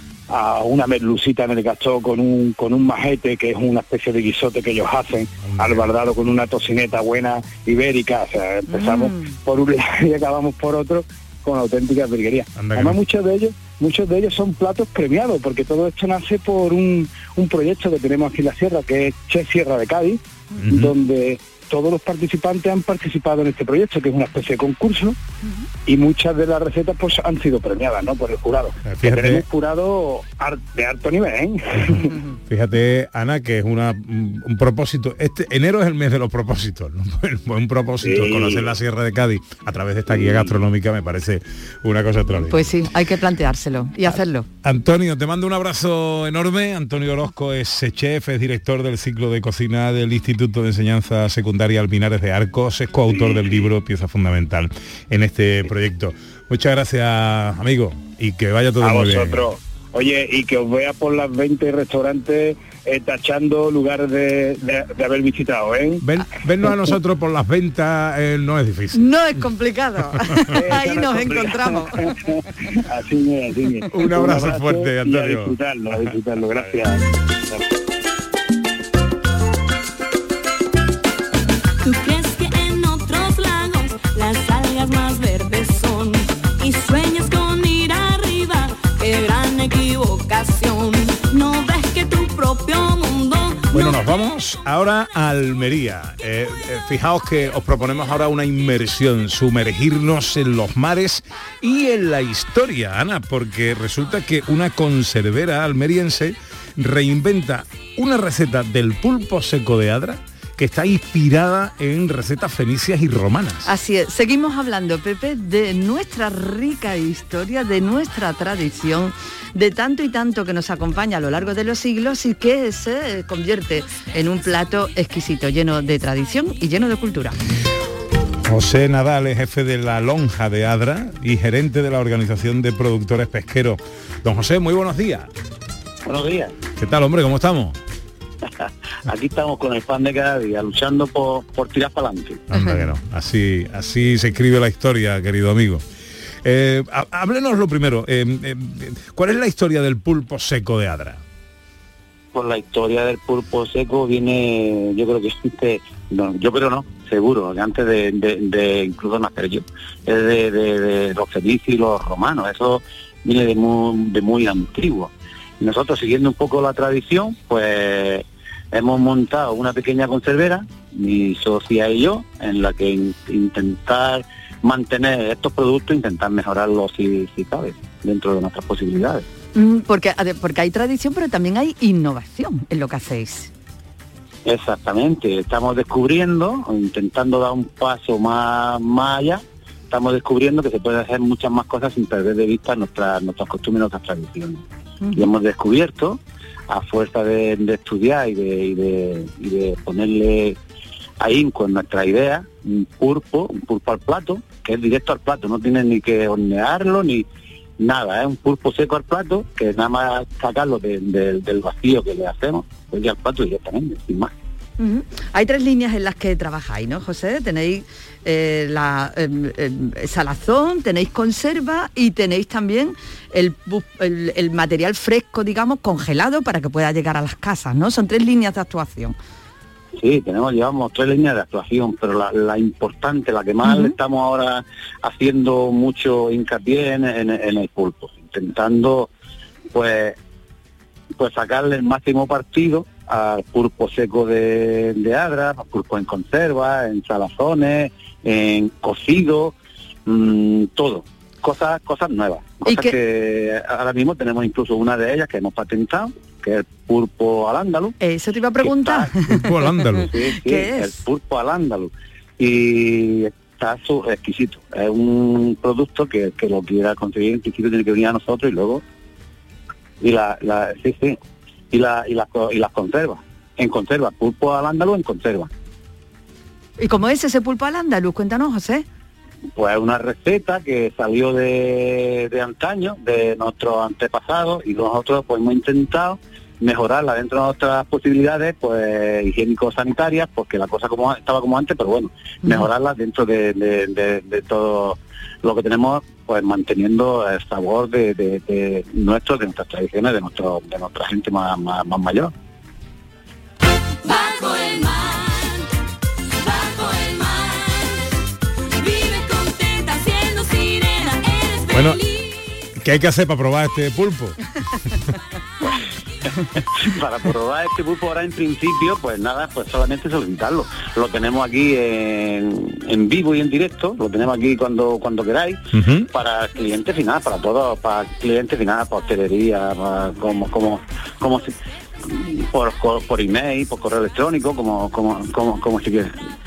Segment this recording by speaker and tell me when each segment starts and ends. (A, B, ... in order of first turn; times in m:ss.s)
0:00.3-0:25.2 A
0:05.4-0:05.9 B
0:08.7-0:09.3 C
0:12.6-0:13.0 B
0:20.6-0:21.0 B
0:25.8-0:32.1 A
0:28.8-0:29.4 B
0:31.8-0:42.8 B
0:38.0-0:38.7 A
0:40.1-0:40.5 A
0:42.5-0:44.5 C
0:44.6-0:59.4 B
0:53.2-0:53.6 A
0:58.8-1:06.0 A
1:06.0-1:09.1 B
1:08.9-1:12.0 C
1:10.1-1:10.6 B
1:10.5-1:12.4 A
1:12.9-1:17.0 A
1:13.9-1:16.8 B
1:21.8-1:33.9 D
1:33.7-1:53.7 B
1:53.6-2:07.4 C
2:08.5-2:15.3 B
2:16.0-2:16.5 E
2:16.8-2:17.8 B
2:19.1-2:22.4 E
2:22.5-2:25.8 B
2:26.4-2:31.2 B
2:32.3-2:59.2 E
2:59.5-3:03.5 C
3:04.4-3:14.6 E
3:15.1-3:20.6 E
3:21.2-3:27.2 E
3:27.8-3:34.3 E
3:34.8-3:49.2 C
3:50.0-3:59.1 E
3:53.7-3:53.9 C
3:59.7-4:00.2 E
4:01.2-4:09.5 E
4:10.0-4:17.9 E
4:12.6-4:12.9 C
4:18.0-4:21.0 C
4:18.6-4:19.1 E
4:19.3-4:20.1 B
4:20.1-4:28.8 E
4:30.0-4:31.2 E
4:31.7-4:35.5 E
4:36.8-4:38.8 C
4:39.6-5:02.3 E
5:04.1-5:05.2 D
5:06.5-5:07.4 D
5:08.8-5:12.0 D
5:11.7-5:12.0 B
5:12.8-5:14.4 B
5:16.5-5:31.5 E
5:25.7-5:26.1 B
5:32.0-5:36.2 E